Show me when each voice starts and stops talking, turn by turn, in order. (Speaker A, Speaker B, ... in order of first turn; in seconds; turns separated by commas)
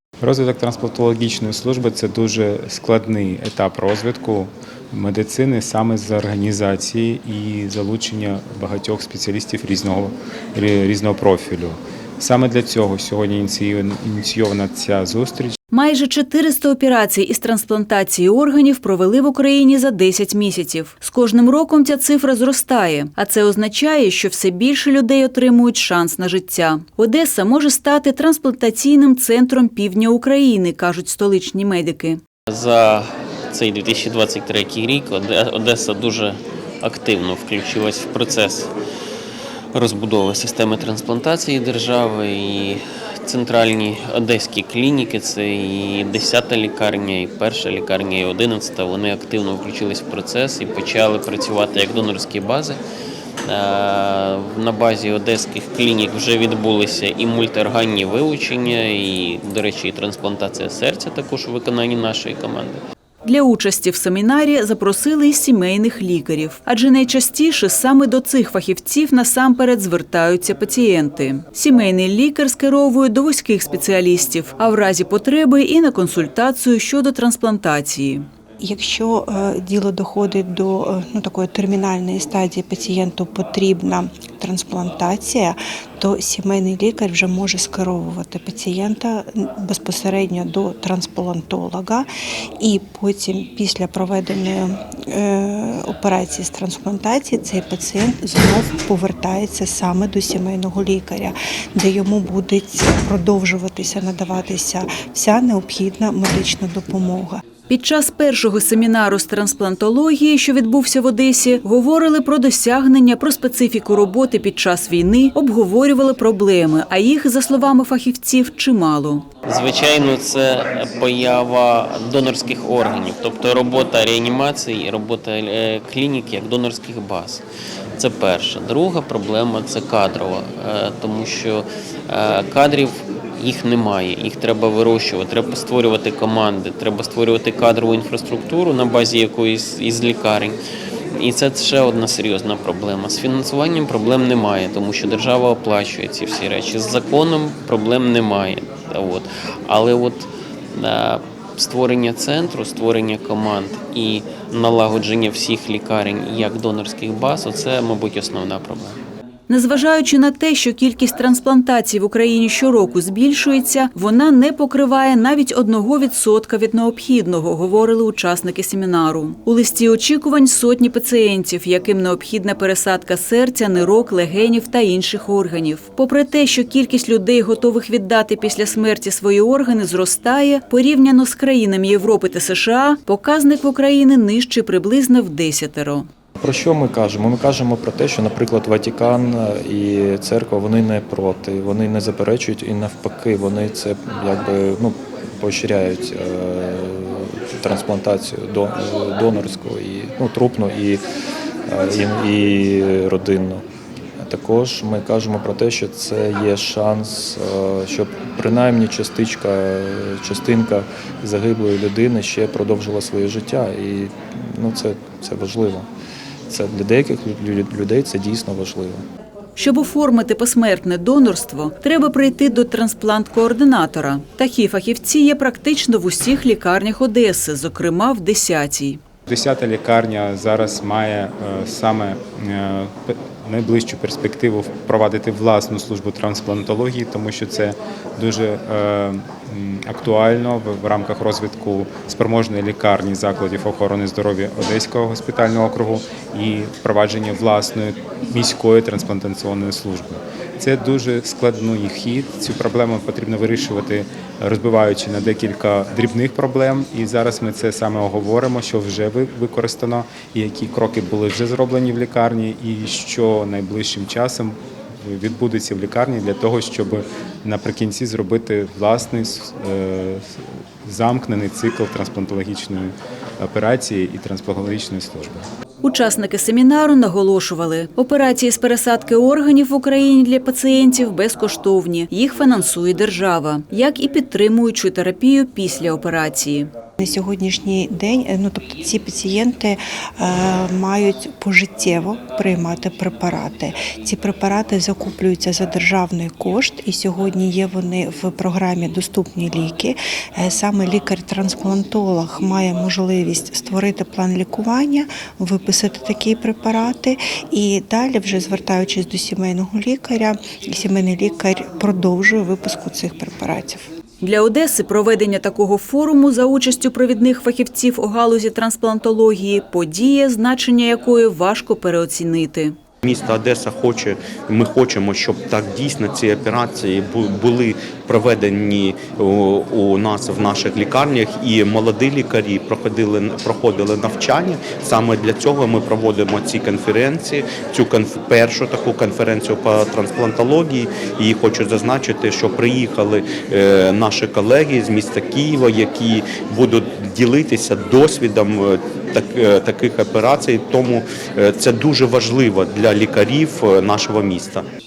Speaker A: 0.2-15.6, Speaker B: 15.7-32.2, Speaker C: 32.5-38.7, Speaker C: 39.7-52.8, Speaker C: 53.5-62.8, Speaker B: 63.2-78.3, Speaker D: 78.6-92.1, Speaker D: 92.6-107.4, Speaker B: 107.7-119.3, Speaker C: 119.5-127.4, Speaker C: 128.0-140.6, Speaker C: 141.1-159.0, Speaker B: 159.5-186.1, Speaker E: 186.4-201.0, Speaker E: 201.7-203.6, Speaker E: 204.2-215.9, Speaker E: 216.5-219.0, Speaker B: 219.6-229.0, Speaker A: 229.3-275.5, Speaker B: 275.8-286.7, Speaker D: 287.0-313.8, Speaker B: 314.2-322.8, Speaker F: 323.0-354.6